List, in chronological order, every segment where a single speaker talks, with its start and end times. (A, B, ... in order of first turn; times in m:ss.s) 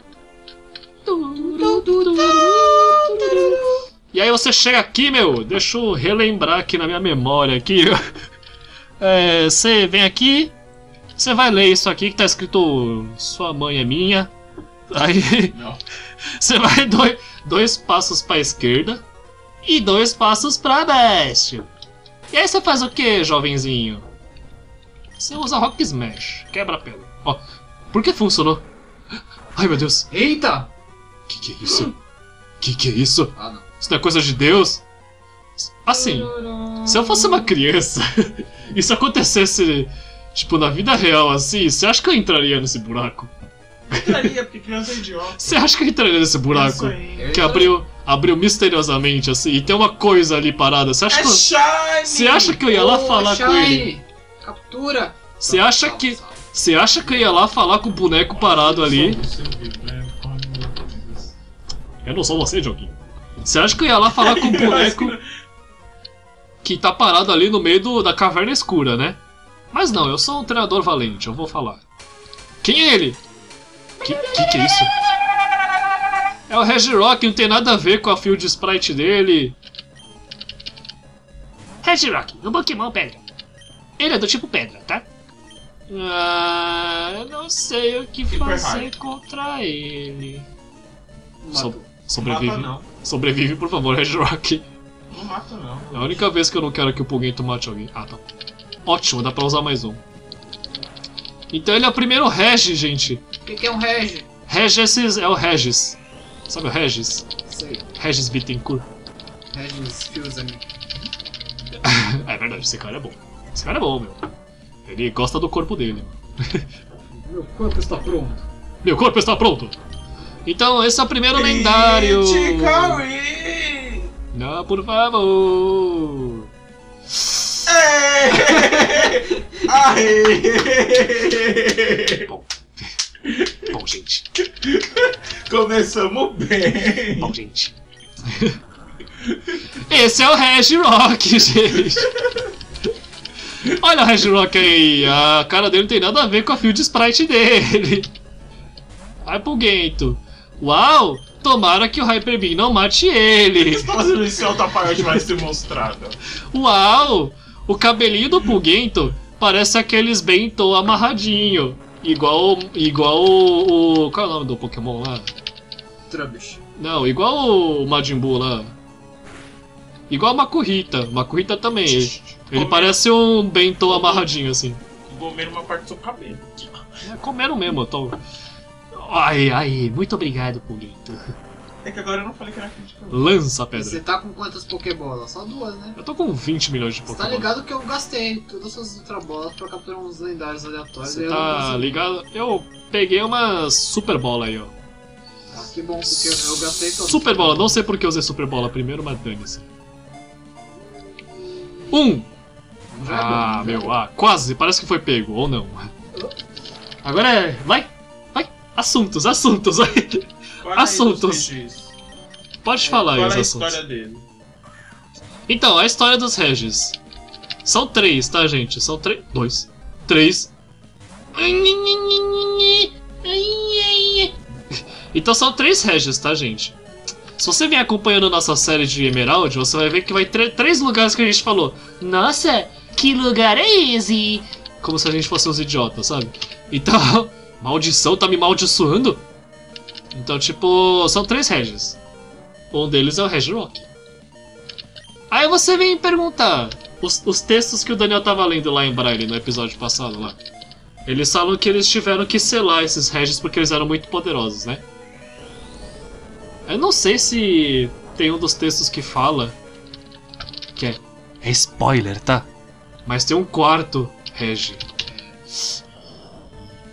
0:01.0-0:08.0 A
0:01.4-0:03.8 B
0:09.0-0:10.5 A
0:11.2-0:14.3 A
0:14.9-0:15.6 A
0:15.5-0:15.8 C
0:16.4-0:19.0 A
0:19.6-0:21.7 A
0:22.3-0:24.0 A
0:25.2-0:27.4 A
0:27.9-0:28.6 A
0:29.5-0:30.1 A
0:30.1-0:30.7 B
0:31.3-0:31.9 A
0:32.6-0:34.8 A
0:33.3-0:33.6 B
0:35.8-0:36.3 A
0:35.9-0:37.5 B
0:36.8-0:43.3 A
0:43.9-0:45.6 C
0:43.9-0:44.3 A
0:45.4-0:51.5 A
0:46.5-0:47.3 C
0:47.2-0:47.8 B
0:51.1-0:52.7 C
0:52.0-0:53.9 A
0:52.7-0:56.4 B
0:55.4-0:59.2 A
0:58.3-1:01.3 C
1:02.0-1:05.2 A
1:04.1-1:05.2 C
1:06.6-1:09.2 A
1:09.7-1:11.8 A
1:12.6-1:13.2 A
1:14.0-1:14.9 A
1:16.5-1:19.6 A
1:21.8-1:23.2 A
1:24.0-1:25.0 A
1:25.9-1:30.5 A
1:28.3-1:28.9 C
1:31.4-1:31.9 B
1:31.5-1:34.7 A
1:32.2-1:32.9 C
1:35.1-1:36.2 C
1:35.9-1:38.2 A
1:38.8-1:40.0 A
1:41.5-1:43.2 A
1:43.4-1:44.3 B
1:44.5-1:46.0 A
1:46.5-1:47.3 A
1:47.5-1:47.9 B
1:48.0-1:48.8 A
1:49.5-1:50.6 B
1:51.8-1:54.2 A
1:54.8-1:56.7 A
1:57.1-1:58.5 B
1:58.8-1:59.8 A
2:00.4-2:03.0 A
2:01.3-2:04.1 C
2:04.3-2:06.5 A
2:07.2-2:07.6 A
2:07.7-2:12.3 C
2:08.5-2:09.1 B
2:12.2-2:12.8 A
2:13.2-2:13.8 C
2:13.7-2:14.3 A
2:14.6-2:17.4 C
2:17.2-2:17.8 A
2:18.3-2:18.6 A
2:19.8-2:22.1 A
2:21.8-2:22.4 C
2:23.6-2:28.1 A
2:29.2-2:33.9 A
2:33.6-2:36.2 C
2:36.5-2:45.3 A
2:46.1-2:46.6 B
2:46.8-2:48.7 A
2:50.1-2:54.8 A
2:51.8-2:53.0 C
2:53.8-2:54.3 C
2:55.0-2:56.9 C
2:57.0-2:58.2 A
2:58.9-3:01.3 A
3:01.8-3:03.4 C
3:03.1-3:04.0 A
3:03.7-3:06.0 B
3:06.0-3:07.5 A
3:07.0-3:12.0 B
3:11.0-3:14.7 A
3:15.5-3:17.8 B
3:16.1-3:19.7 A
3:20.9-3:22.0 B
3:21.9-3:22.3 A
3:22.9-3:24.0 B
3:23.0-3:25.9 A
3:27.0-3:31.5 A
3:30.6-3:32.0 C
3:32.6-3:33.8 A
3:33.0-3:34.2 C
3:35.5-3:37.0 A
3:37.6-3:40.5 A
3:41.3-3:44.3 A
3:45.1-3:46.7 A
3:47.4-3:59.2 A
4:00.1-4:02.0 A
4:02.7-4:03.9 A
4:05.3-4:10.4 A
4:11.0-4:14.8 A
4:16.7-4:19.5 A
4:20.8-4:22.5 A
4:23.0-4:24.9 A